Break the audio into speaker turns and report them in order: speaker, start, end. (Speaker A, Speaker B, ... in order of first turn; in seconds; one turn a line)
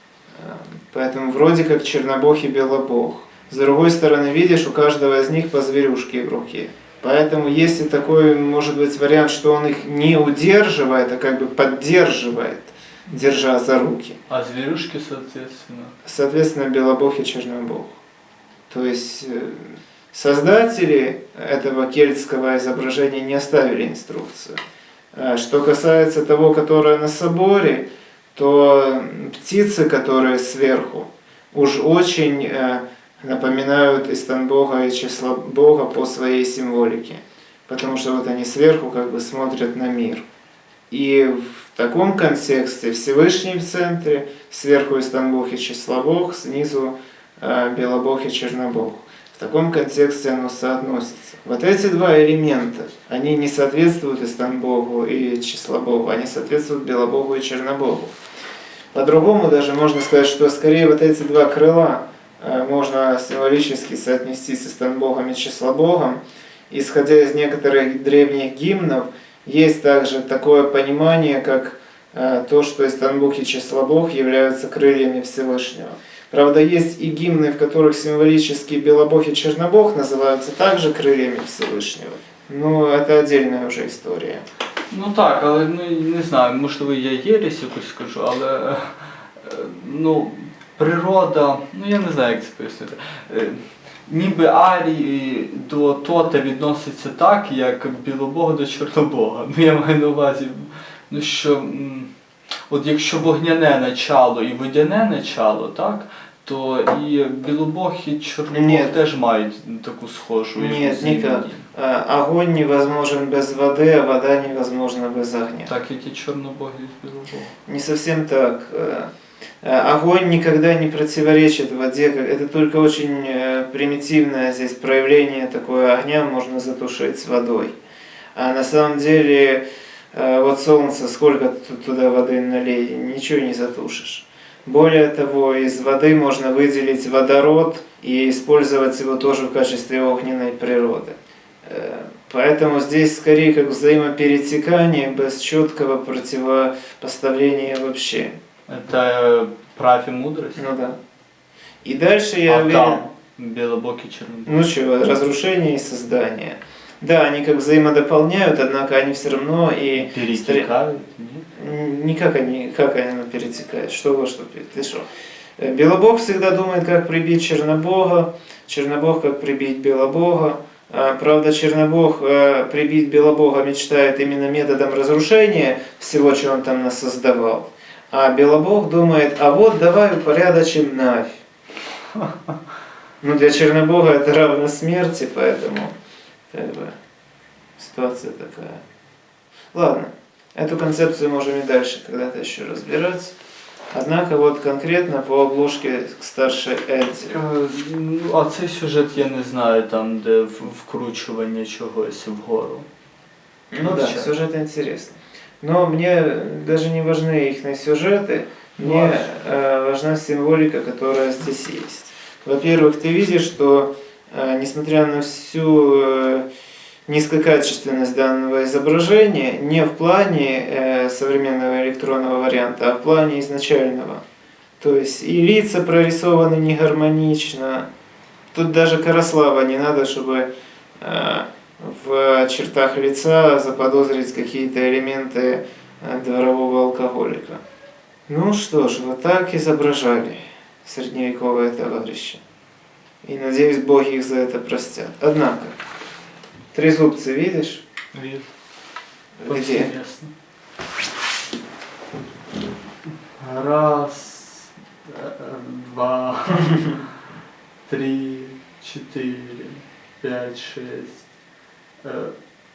Speaker A: 0.4-14.2
Speaker B: 14.3-15.9
Speaker A: 16.1-18.0
Speaker A: 18.7-24.6
Speaker A: 25.1-40.2
Speaker A: 40.9-58.1
Speaker A: 58.9-84.4
Speaker B: 84.9-102.1
Speaker B: 102.7-111.7
Speaker A: 108.5-108.9
Speaker A: 110.6-115.7
Speaker B: 115.7-117.5
Speaker A: 117.7-119.1
Speaker A: 119.6-127.8
Speaker A: 128.4-148.3
Speaker B: 148.7-150.7
Speaker A: 150.6-151.0
Speaker A: 151.8-153.1
Speaker B: 152.5-154.7
Speaker A: 154.5-160.7
Speaker B: 160.0-161.5
Speaker A: 161.6-165.0
Speaker A: 165.6-181.4
Speaker B: 182.1-182.5
Speaker A: 183.2-185.9
Speaker A: 186.5-187.0
Speaker A: 187.8-188.8
Speaker A: 189.7-193.3
Speaker A: 193.9-197.4
Speaker B: 197.3-202.9
Speaker A: 203.7-216.5
Speaker B: 203.8-204.3
Speaker B: 208.8-209.6
Speaker A: 217.1-224.2
Speaker A: 224.8-227.9
Speaker A: 228.5-237.6
Speaker A: 238.3-242.4
Speaker A: 243.2-245.8
Speaker A: 246.7-247.8
Speaker B: 248.1-248.5
Speaker A: 249.4-249.9
Speaker B: 249.5-250.3
Speaker B: 253.4-257.1
Speaker B: 257.9-261.2
Speaker B: 262.0-262.4